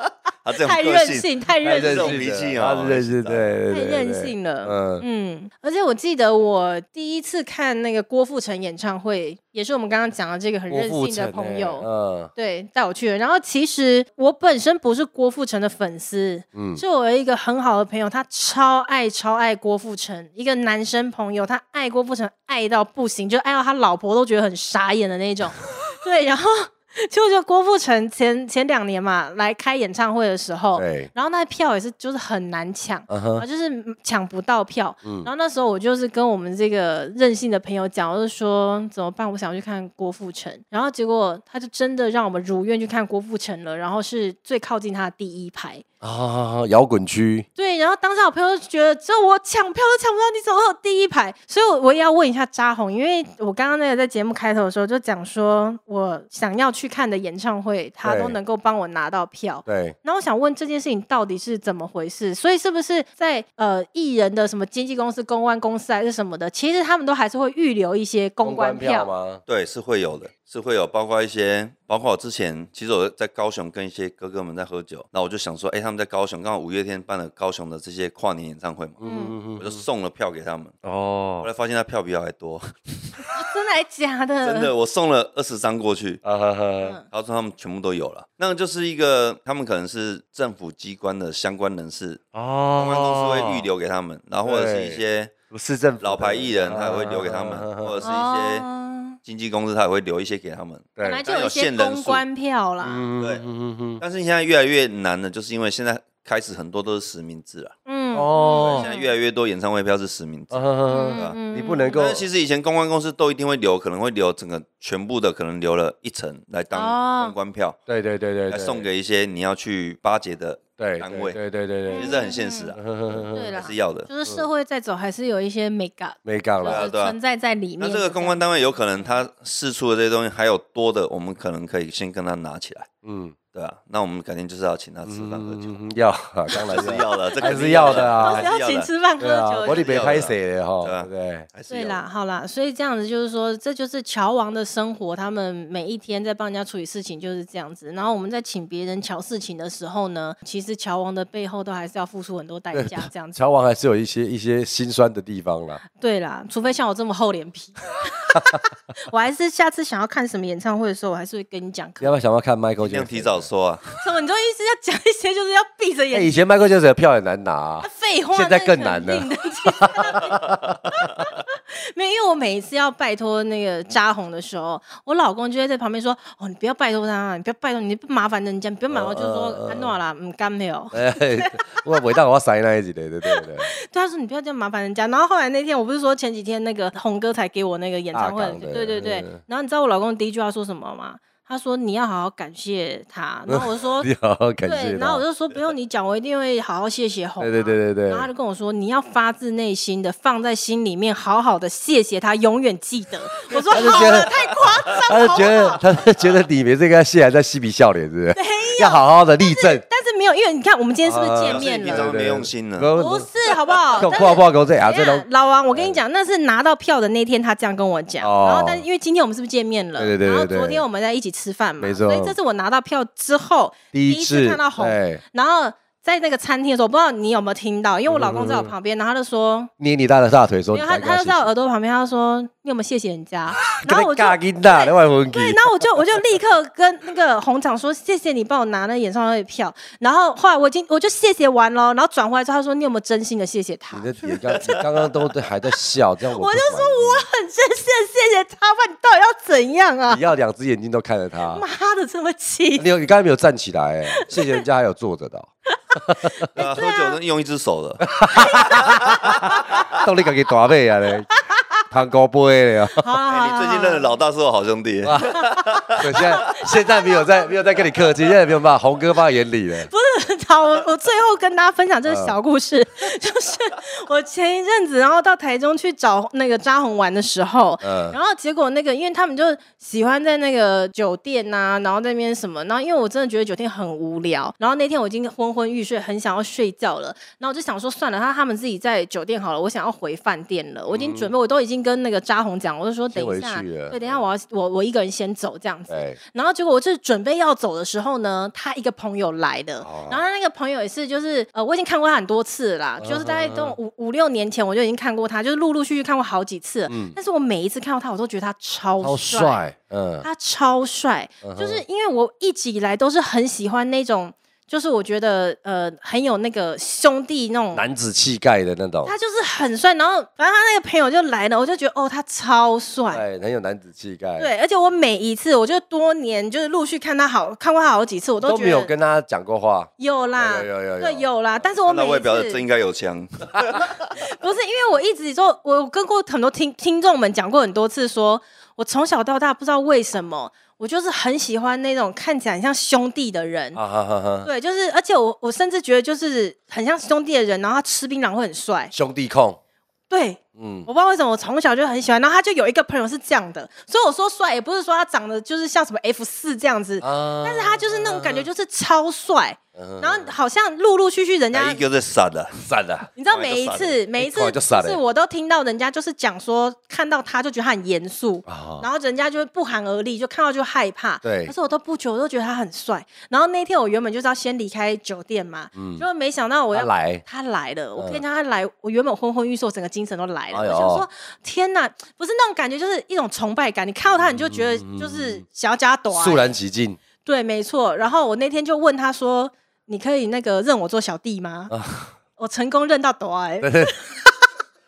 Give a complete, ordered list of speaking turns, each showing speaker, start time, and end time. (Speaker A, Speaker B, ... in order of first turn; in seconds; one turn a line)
Speaker A: 0.4-3.5
Speaker B: 0.6-2.1
Speaker C: 1.6-5.0
Speaker B: 3.7-45.8
Speaker C: 10.7-12.3
Speaker C: 16.5-16.8
Speaker C: 30.8-31.1
Speaker C: 33.1-33.5
Speaker C: 35.0-35.3
Speaker C: 46.0-47.5
Speaker B: 47.5-69.1
Speaker C: 58.0-58.4
Speaker C: 59.6-59.9
Speaker C: 68.4-69.4
Speaker A: 69.5-79.0
Speaker C: 79.0-79.8
Speaker B: 79.0-79.4
Speaker A: 79.5-80.7
Speaker C: 80.8-81.5
Speaker A: 81.4-83.3
Speaker B: 83.3-84.7
Speaker A: 84.4-86.2
Speaker C: 86.2-87.0
Speaker A: 87.1-92.2
Speaker C: 92.3-93.7
Speaker A: 92.7-95.3
Speaker C: 94.4-98.0
Speaker A: 96.0-98.7
Speaker B: 98.0-99.2
Speaker A: 99.2-102.2
Speaker C: 101.0-101.2
Speaker B: 101.0-103.0
Speaker C: 102.8-104.0
Speaker A: 103.2-103.5
Speaker A: 104.0-107.7
Speaker B: 107.8-109.1
Speaker C: 108.1-108.9
Speaker A: 108.5-110.6
Speaker C: 110.5-112.3
Speaker B: 110.9-112.0
Speaker A: 111.1-111.4
Speaker A: 111.9-117.8
Speaker B: 116.7-117.3
Speaker C: 117.9-118.8
Speaker A: 118.5-121.4
Speaker C: 120.8-122.2
Speaker B: 121.9-122.8
Speaker A: 121.9-124.1
Speaker C: 122.8-123.6
Speaker B: 123.3-128.4
Speaker C: 126.2-126.9
Speaker A: 126.7-127.2
Speaker A: 127.8-132.9
Speaker C: 133.0-133.4
Speaker A: 133.5-135.8
Speaker C: 135.0-138.5
Speaker B: 136.5-140.2
Speaker A: 136.5-138.9
Speaker C: 139.2-141.5
Speaker A: 139.6-142.0
Speaker B: 141.7-153.4
Speaker C: 152.7-155.8
Speaker B: 156.0-162.2
Speaker C: 162.0-163.5
Speaker A: 162.8-164.0
Speaker B: 164.0-166.3
Speaker C: 166.1-171.0
Speaker B: 167.8-182.1
Speaker C: 178.9-179.9
Speaker C: 180.9-183.7
Speaker B: 183.2-194.1
Speaker C: 188.1-189.4
Speaker C: 193.5-195.2
Speaker B: 194.6-205.8
Speaker C: 197.4-198.3
Speaker C: 203.7-209.8
Speaker B: 208.3-212.1
Speaker C: 211.0-213.3
Speaker A: 211.4-212.9
Speaker B: 212.9-229.7
Speaker C: 213.9-216.0
Speaker C: 218.2-218.8
Speaker C: 220.0-220.8
Speaker C: 221.8-222.4
Speaker C: 223.9-225.2
Speaker C: 228.1-228.7
Speaker C: 229.8-231.5
Speaker B: 230.7-244.4
Speaker C: 233.7-235.6
Speaker C: 243.9-247.3
Speaker A: 244.5-245.1
Speaker B: 246.3-250.2
Speaker C: 250.1-251.6
Speaker B: 251.5-252.9
Speaker C: 252.8-256.3
Speaker B: 254.1-254.6
Speaker B: 256.2-257.2
Speaker A: 256.6-259.2
Speaker C: 258.0-261.3
Speaker B: 258.3-259.8
Speaker B: 261.4-261.7
Speaker C: 261.9-263.1
Speaker B: 263.0-264.1
Speaker A: 263.3-266.3
Speaker C: 265.0-269.9
Speaker B: 265.2-268.0
Speaker B: 269.9-309.7
Speaker C: 272.1-272.4
Speaker C: 277.8-278.2
Speaker C: 290.9-291.3
Speaker C: 293.1-294.2
Speaker C: 295.9-296.2
Speaker C: 299.8-300.2
Speaker C: 303.0-303.8
Speaker C: 306.9-307.2
Speaker C: 309.0-310.3
Speaker B: 310.2-317.8
Speaker C: 311.4-311.8
Speaker C: 317.7-319.1
Speaker B: 319.0-323.2
Speaker C: 323.1-324.5
Speaker B: 324.4-328.9
Speaker C: 328.4-331.2
Speaker B: 330.0-332.6
Speaker A: 331.9-334.0
Speaker B: 334.1-343.8
Speaker C: 343.7-344.5
Speaker B: 344.4-348.9
Speaker C: 348.9-349.6
Speaker B: 350.1-361.8
Speaker C: 350.6-350.9
Speaker C: 357.0-358.5
Speaker C: 359.7-360.3
Speaker A: 361.5-362.6
Speaker C: 362.6-363.1
Speaker B: 363.1-386.5
Speaker A: 363.3-364.0
Speaker C: 364.2-365.0
Speaker C: 368.4-368.9
Speaker C: 371.2-371.5
Speaker C: 375.7-376.0
Speaker C: 376.7-377.2
Speaker C: 378.0-378.2
Speaker C: 380.5-381.1
Speaker C: 384.3-385.4
Speaker C: 386.1-387.0
Speaker B: 387.2-391.7
Speaker C: 391.7-392.1
Speaker B: 392.4-394.4
Speaker C: 393.6-393.9